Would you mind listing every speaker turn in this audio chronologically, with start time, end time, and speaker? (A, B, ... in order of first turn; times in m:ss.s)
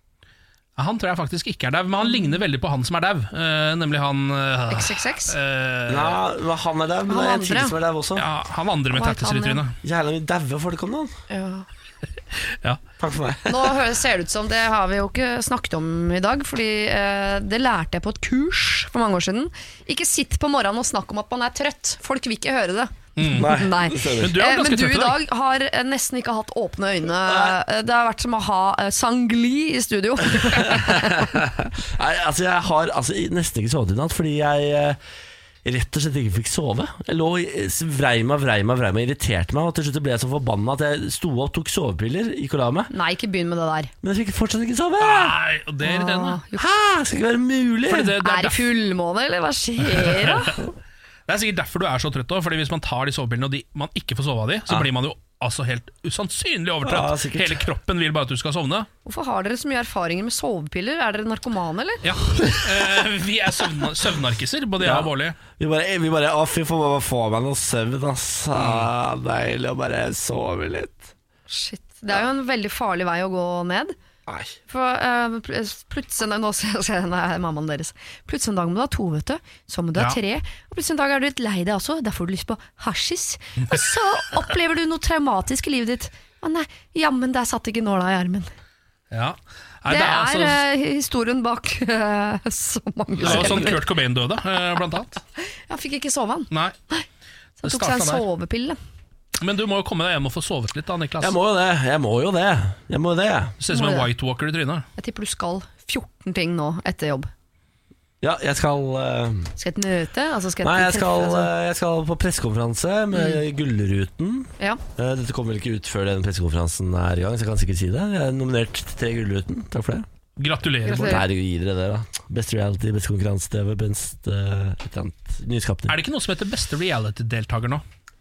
0:00.8-0:06.2 A
0:02.0-0:02.4 B
0:04.7-0:05.4 B
0:05.9-0:08.3 C
0:07.1-0:07.8 B
0:08.2-0:09.8 A
0:08.9-0:09.6 B
0:09.8-0:11.1 C
0:11.3-0:11.7 B
0:12.5-0:12.8 A
0:13.0-0:13.8 C
0:13.5-0:31.3 B
0:23.2-0:23.6 A
0:23.3-0:24.4 C
0:24.1-0:25.2 A
0:27.2-0:27.6 C
0:30.3-0:35.0 C
0:35.6-0:42.9 C
0:42.9-0:43.9 B
0:44.0-0:45.4 C
0:45.0-0:46.4 A
0:45.8-0:46.7 B
0:46.6-0:48.2 C
0:47.9-0:48.7 A
0:48.2-0:50.6 B
0:49.9-0:50.5 A
0:51.3-0:58.9 A
0:56.8-0:57.6 C
0:59.0-1:02.0 B
1:02.0-1:05.4 A
1:04.8-1:11.1 C
1:08.6-1:08.9 A
1:11.5-1:14.0 B
1:14.3-1:14.6 C
1:14.7-1:28.5 B
1:29.1-1:30.6 A
1:29.9-1:33.8 B
1:33.2-1:33.8 C
1:33.2-1:35.2 A
1:35.4-1:37.1 B
1:36.5-1:36.8 A
1:37.6-1:38.8 B
1:37.6-1:38.3 A
1:39.4-1:41.4 A
1:41.2-1:43.6 C
1:43.6-1:44.9 A
1:43.7-1:44.1 B
1:45.0-1:47.3 B
1:48.2-1:49.5 C
1:49.6-1:51.5 B
1:50.6-2:00.1 C
1:53.1-1:53.4 B
2:00.4-2:01.2 A
2:00.9-2:01.2 B
2:00.9-2:06.0 C
2:05.9-2:07.8 A